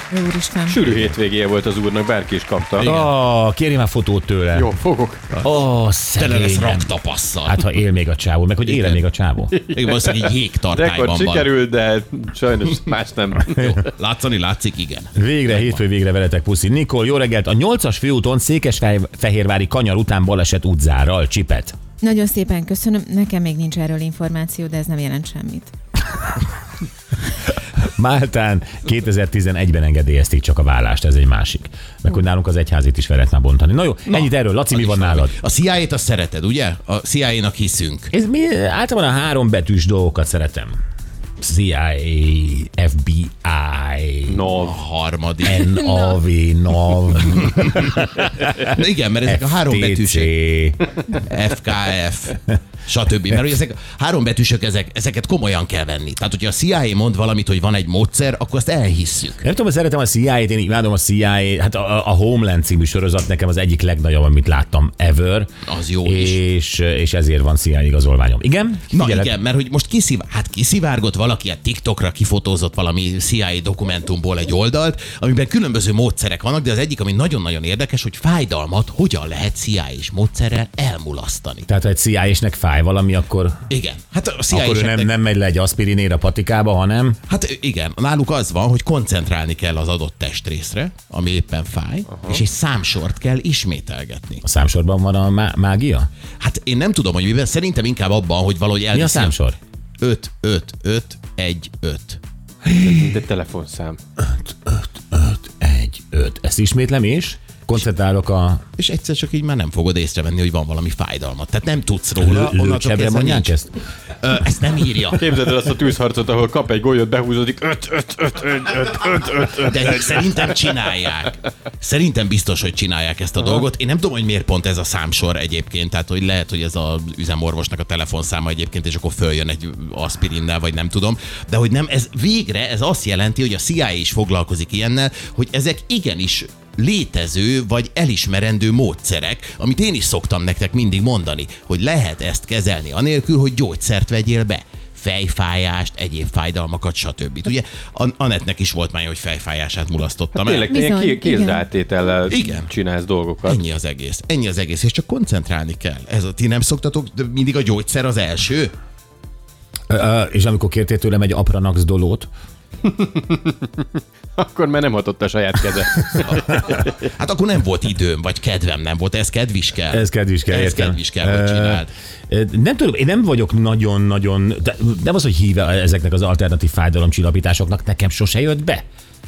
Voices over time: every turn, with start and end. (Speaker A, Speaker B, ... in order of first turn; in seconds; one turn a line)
Speaker A: 0.1-0.8
Speaker B: 0.7-3.0
Speaker C: 2.8-4.7
Speaker B: 4.5-5.3
Speaker C: 5.4-6.9
Speaker D: 6.2-7.7
Speaker C: 7.4-9.6
Speaker D: 8.6-9.0
Speaker B: 9.5-13.8
Speaker D: 9.7-11.6
Speaker D: 13.5-15.8
Speaker C: 15.2-21.8
Speaker A: 22.0-25.7
Speaker C: 27.8-35.4
Speaker D: 34.1-38.1
Speaker C: 38.1-40.8
Speaker C: 41.4-44.5
Speaker B: 44.3-44.8
Speaker D: 44.6-45.7
Speaker C: 45.4-48.7
Speaker D: 47.2-47.9
Speaker D: 48.6-50.3
Speaker C: 49.3-50.8
Speaker D: 51.3-59.5
Speaker C: 59.4-65.5
Speaker D: 65.7-66.4
Speaker C: 66.0-69.3
Speaker D: 68.9-81.7
Speaker C: 81.7-83.6
Speaker D: 83.7-85.1
Speaker C: 84.5-87.2
Speaker D: 87.3-94.4
Speaker C: 94.4-96.1
Speaker D: 96.4-99.4
Speaker C: 98.9-99.6
Speaker D: 100.0-102.2
Speaker B: 102.7-104.0
Speaker C: 104.2-108.6
Speaker D: 108.8-113.6
Speaker C: 112.2-113.7
Speaker D: 114.2-115.3
Speaker B: 115.1-120.8
Speaker D: 119.7-150.7
Speaker B: 150.3-153.6
Speaker A: 150.7-151.7
Speaker D: 152.3-152.7
Speaker D: 153.4-158.7
Speaker C: 159.9-162.3
Speaker B: 162.8-166.9
Speaker D: 166.2-171.9
Speaker C: 169.9-178.8